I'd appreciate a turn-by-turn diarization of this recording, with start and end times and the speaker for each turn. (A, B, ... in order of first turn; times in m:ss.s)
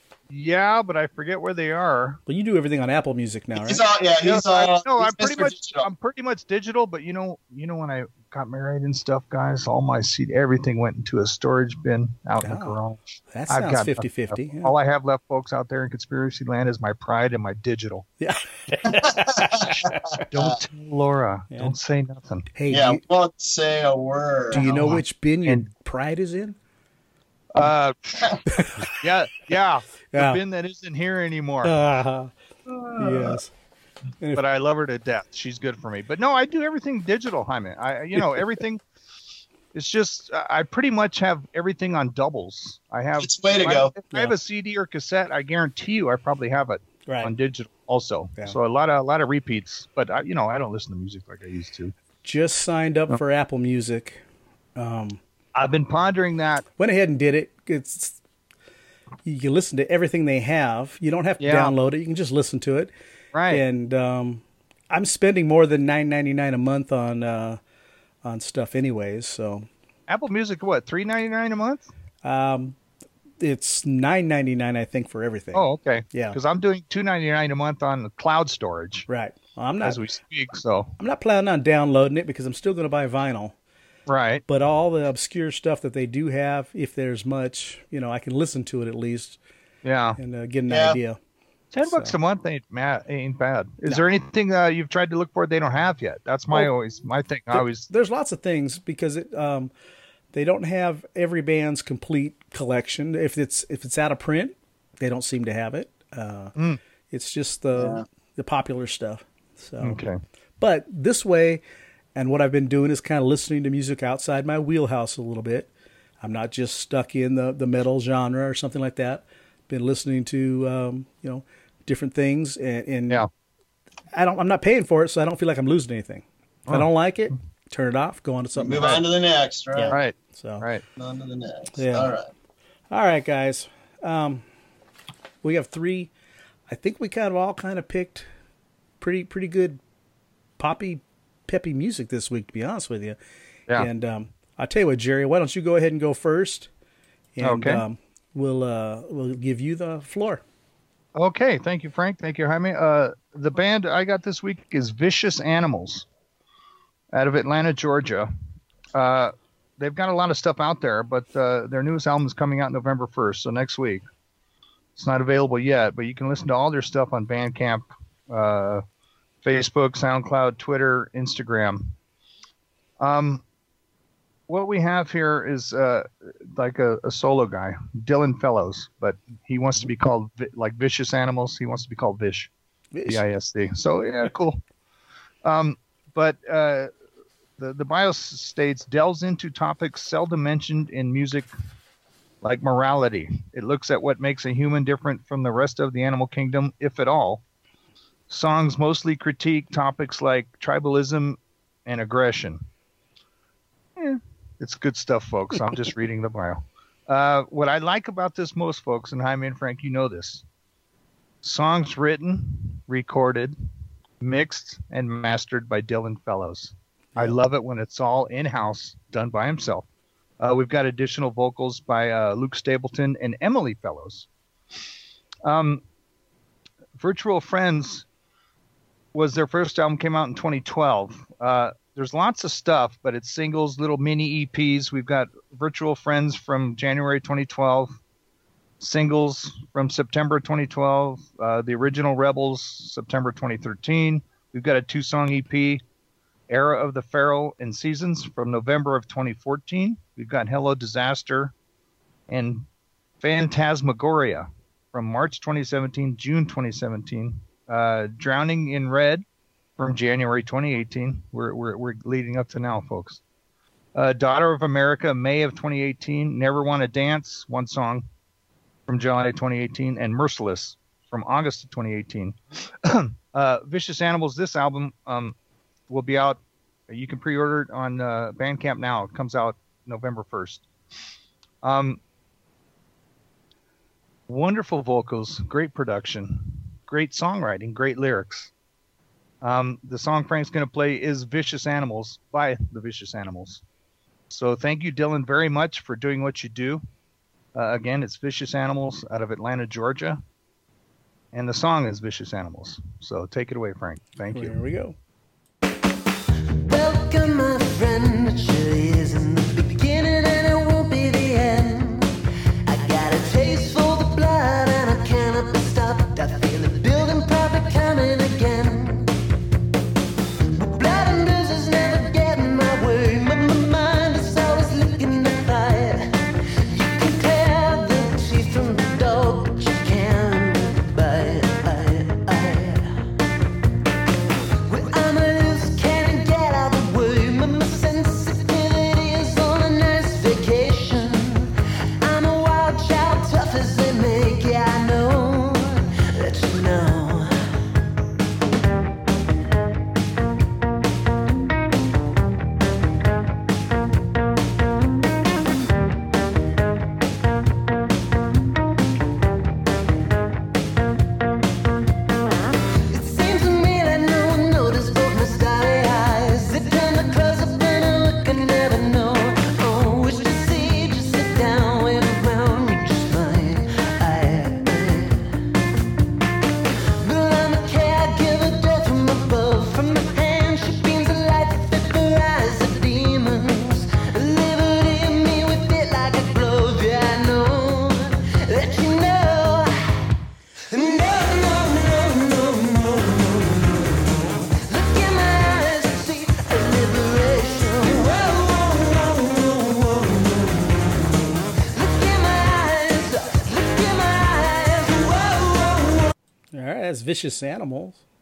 0:00.3-0:02.2 A
0:02.3-0:03.8 B
0:03.5-0:05.9 C
0:04.2-0:18.1 A
0:12.4-0:12.8 B
0:13.3-0:14.7 B
0:18.2-0:20.2 B
0:18.9-0:20.6 C
0:20.3-0:22.5 A
0:22.5-0:23.0 B
0:22.7-0:24.8 C
0:24.5-0:26.6 B
0:24.6-0:25.6 A
0:27.5-0:31.7 A
0:28.5-0:28.8 B
0:30.1-0:30.4 B
0:31.6-0:32.3 B
0:32.7-0:33.4 C
0:33.0-0:33.5 B
0:34.3-0:38.8 A
0:39.7-0:51.9 A
0:43.2-0:43.9 C
0:47.1-0:47.3 B
0:52.2-0:54.2 B
0:54.8-0:55.2 B
0:55.5-0:56.6 A
0:56.8-0:58.2 B
0:59.2-1:02.9 B
1:01.4-1:01.7 A
1:03.3-1:03.6 A
1:03.5-1:07.6 B
1:08.2-1:09.6 B
1:10.1-1:11.9 A
1:12.2-1:12.8 B
1:13.4-1:16.4 B
1:15.5-1:19.1 A
1:19.1-1:20.0 B
1:19.8-1:20.9 A
1:21.0-1:23.5 B
1:24.1-1:24.4 A
1:24.5-1:29.4 B
1:29.8-1:30.2 A
1:30.2-1:31.2 B
1:30.7-1:31.0 C
1:31.7-1:37.9 A
1:31.8-1:32.1 B
1:37.5-1:39.7 B
1:40.3-1:46.5 B
1:47.1-1:50.0 B
1:47.7-1:48.0 C
1:49.8-1:50.2 A
1:50.6-1:51.6 B
1:52.1-1:55.7 B
1:56.2-2:03.2 B
2:04.1-2:09.0 B
2:08.6-2:10.0 C
2:09.7-2:10.7 B
2:09.9-2:10.8 A
2:11.0-2:12.3 C
2:11.8-2:12.1 B
2:12.9-2:14.4 B
2:15.4-2:16.1 B
2:16.7-2:18.3 B
2:19.0-2:19.8 B
2:20.6-2:23.2 B
2:23.8-2:26.7 B
2:27.4-2:30.4 B
2:27.4-2:27.8 A
2:31.1-2:36.0 A
2:37.1-2:38.3 A
2:38.9-2:44.0 A
2:45.0-2:48.8 A
2:49.4-2:51.9 A
2:53.0-2:53.4 A
2:54.5-3:02.5 A
3:02.9-3:03.2 B
3:03.1-3:04.6 A
3:05.4-3:06.9 A
3:07.6-3:11.5 A
3:12.4-3:17.4 A
3:18.3-3:22.6 A
3:24.0-3:30.4 A
3:31.4-3:33.6 A
3:34.2-3:39.8 A
3:40.4-3:44.3 A
3:45.4-3:45.8 A
3:47.0-3:48.0 A
3:49.1-3:58.0 A
3:58.8-4:05.8 A
4:06.5-4:11.5 A
4:12.3-4:12.6 A
4:13.2-4:19.2 A
4:19.8-4:23.2 A
4:23.9-4:28.0 A
4:28.9-4:35.3 A
4:35.9-4:40.6 A
4:41.6-4:42.0 A
4:44.3-4:48.5 A
4:49.4-4:53.6 A
4:54.3-4:56.8 A
4:57.5-5:00.2 A
5:01.3-5:04.6 A
5:04.3-5:04.9 B
5:06.6-5:12.1 D
5:12.7-5:19.1 D
5:20.5-5:32.9 D
5:34.7-5:47.3 D
6:02.9-6:15.2 D
6:17.0-6:29.7 D
6:30.7-6:46.1 D
6:46.5-6:48.0 B